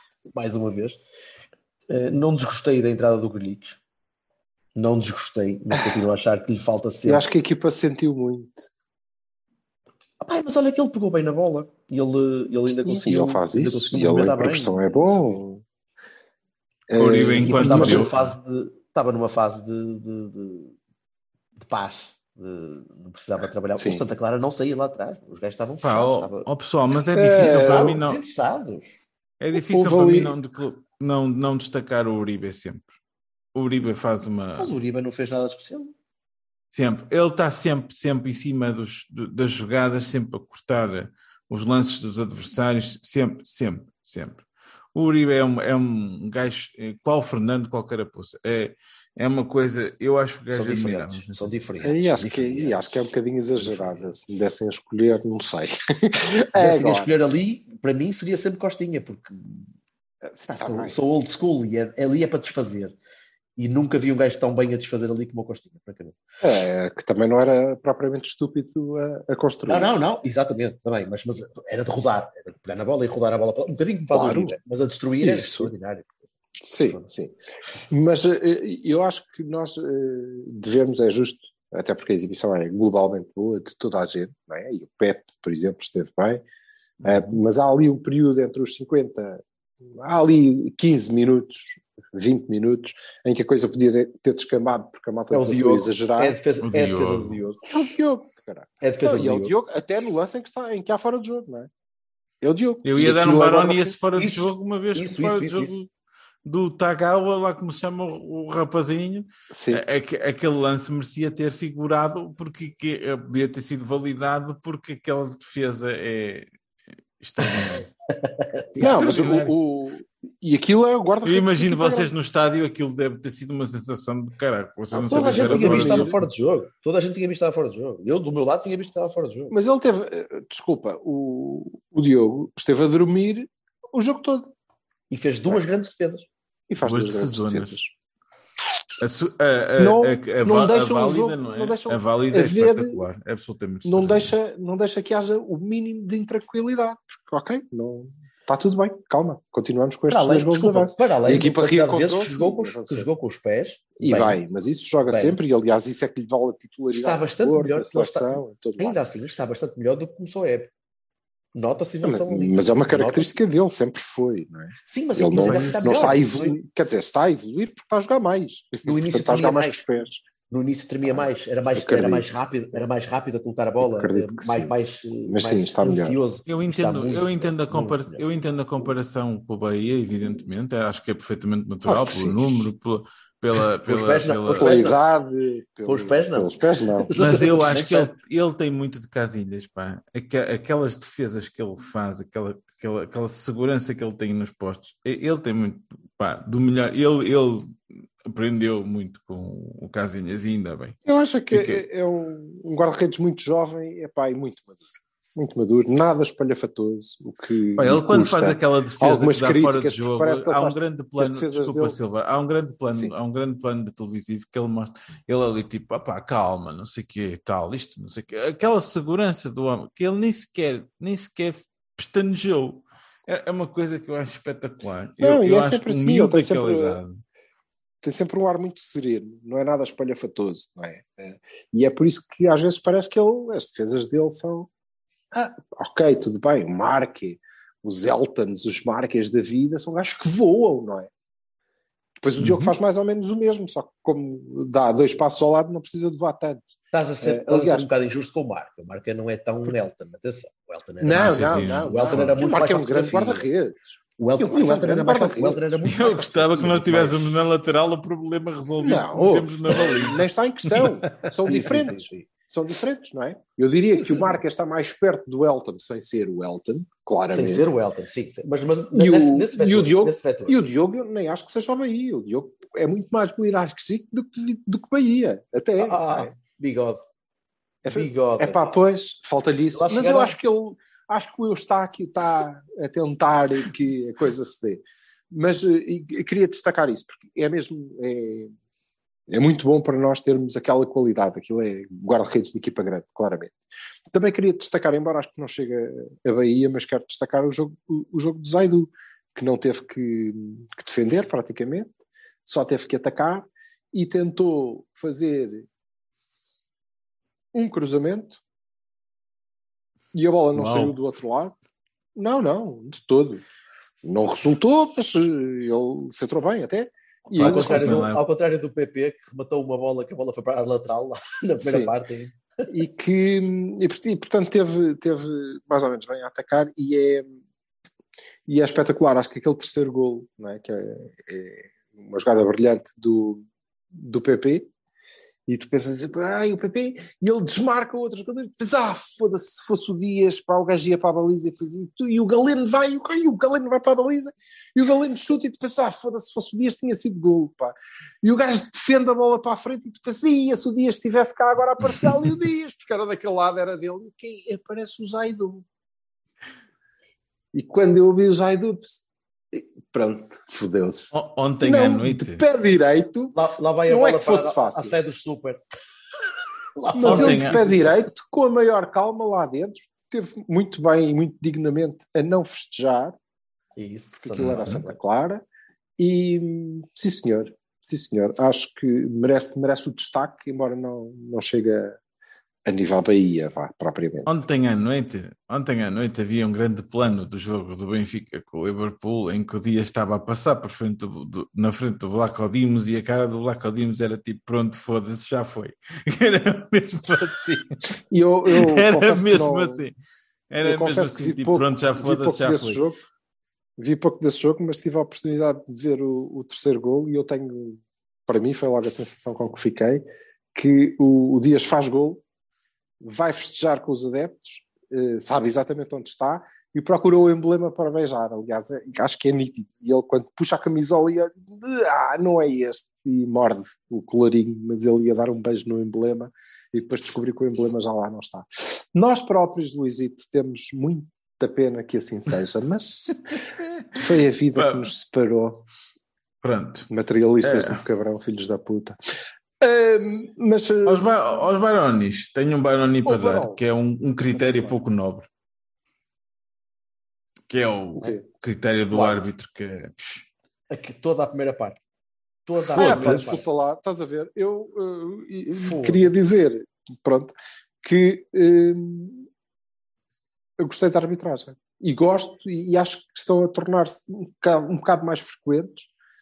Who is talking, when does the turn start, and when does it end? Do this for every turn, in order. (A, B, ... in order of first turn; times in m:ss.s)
0:00.3-0:01.0 A
0:01.9-0:03.8 A
0:04.8-0:07.2 A
0:07.0-0:08.7 B
0:10.2-0:15.2 A
0:12.7-0:15.6 B
0:16.9-0:18.1 B
0:16.9-0:18.3 C
0:17.4-0:20.8 A
0:21.6-0:26.4 A
0:23.7-0:24.0 B
0:25.8-0:28.2 C
0:27.1-0:28.0 B
0:27.3-0:29.0 A
0:29.4-0:32.9 C
0:29.5-0:30.4 B
0:33.6-0:34.7 C
0:34.6-0:35.9 A
0:36.7-0:44.4 C
0:45.0-0:51.5 C
0:50.5-0:53.0 A
0:51.8-0:57.1 B
0:53.6-0:54.1 A
0:56.5-0:59.7 A
1:00.2-1:01.0 B
1:00.6-1:03.0 A
1:03.6-1:06.2 A
1:06.4-1:09.9 B
1:09.7-1:16.1 A
1:14.1-1:14.6 B
1:15.2-1:15.7 B
1:16.6-1:17.4 B
1:17.9-1:26.4 B
1:27.0-1:36.4 B
1:35.3-1:37.6 A
1:36.6-1:37.4 C
1:37.7-1:41.7 B
1:38.8-1:39.5 A
1:42.4-1:44.0 B
1:42.8-1:45.9 C
1:44.2-1:45.8 A
1:46.4-1:56.5 C
1:49.5-1:49.8 B
1:57.2-1:57.9 C
1:58.2-1:59.4 A
1:58.8-1:59.5 C
1:58.8-2:02.1 B
2:01.2-2:06.2 C
2:05.0-2:09.6 A
2:05.0-2:06.2 B
2:09.5-2:14.5 B
2:15.1-2:16.3 A
2:16.7-2:17.9 B
2:16.8-2:17.8 C
2:19.0-2:24.3 C
2:19.8-2:23.0 B
2:23.8-2:33.1 B
2:30.1-2:34.4 A
2:34.0-2:39.0 B
2:35.0-2:35.4 A
2:37.0-2:40.7 A
2:41.6-2:43.4 A
2:42.0-2:50.2 B
2:44.9-2:46.6 A
2:45.4-2:46.2 C
2:48.8-2:49.8 A
2:50.5-2:58.2 A
2:51.0-2:52.3 B
2:53.8-2:54.8 B
2:55.3-2:56.2 B
2:56.5-3:04.7 C
3:01.9-3:02.6 B
3:03.8-3:05.0 A
3:04.5-3:07.1 B
3:05.9-3:08.2 A
3:07.2-3:21.0 C
3:21.0-3:32.0 B
3:21.5-3:21.8 C
3:27.8-3:47.2 C
3:45.2-3:47.0 B
3:48.0-3:54.7 B
3:55.3-4:01.1 B
4:02.2-4:07.9 B
4:02.4-4:02.8 C
4:06.9-4:13.5 A
4:11.0-4:15.6 B
4:11.2-4:12.5 C
4:14.2-4:17.2 A
4:15.8-4:21.3 C
4:18.8-4:27.7 B
4:21.5-4:22.3 A
4:27.3-4:30.6 A
4:28.9-4:36.3 B
4:35.8-4:37.0 A
4:37.8-4:48.5 B
4:37.9-4:38.6 A
4:39.7-4:40.4 A
4:49.3-5:05.7 B
5:07.5-5:08.4 B
5:10.1-5:11.6 B
5:10.5-5:11.0 C
5:12.2-5:13.4 B
5:14.0-5:18.1 B
5:17.3-5:22.4 A
5:17.4-5:18.2 C
5:21.6-5:21.9 B
5:22.7-5:27.3 B
5:28.5-5:34.7 B
5:35.5-5:55.6 B
5:57.5-6:03.4 B
6:01.1-6:02.4 C
6:03.3-6:05.6 A
6:03.9-6:04.9 B
6:06.8-6:07.9 A
6:07.0-6:13.2 B
6:07.0-6:07.8 C
6:13.8-6:14.9 A
6:14.2-6:15.4 B
6:16.0-6:22.0 B
6:22.6-6:24.3 B
6:24.3-6:37.8 C
6:38.1-6:39.8 B
6:38.5-6:39.9 C
6:40.5-6:42.8 C
6:40.6-6:43.0 B
6:43.8-6:52.2 B
6:53.0-7:13.4 B
7:13.9-7:14.9 C
7:14.0-7:15.7 B
7:16.4-7:16.9 C
7:16.9-7:19.0 B
7:17.4-7:17.8 C
7:19.6-7:21.2 B
7:20.8-7:25.3 C
7:23.0-7:23.6 B
7:24.3-7:24.7 B
7:27.5-7:30.3 C
7:28.0-7:28.2 B
7:28.9-7:29.2 A
7:30.7-7:31.8 A
7:32.5-7:33.5 A
7:32.7-7:33.4 C
7:32.8-7:39.3 B
7:35.6-7:36.1 A
7:40.6-7:45.9 B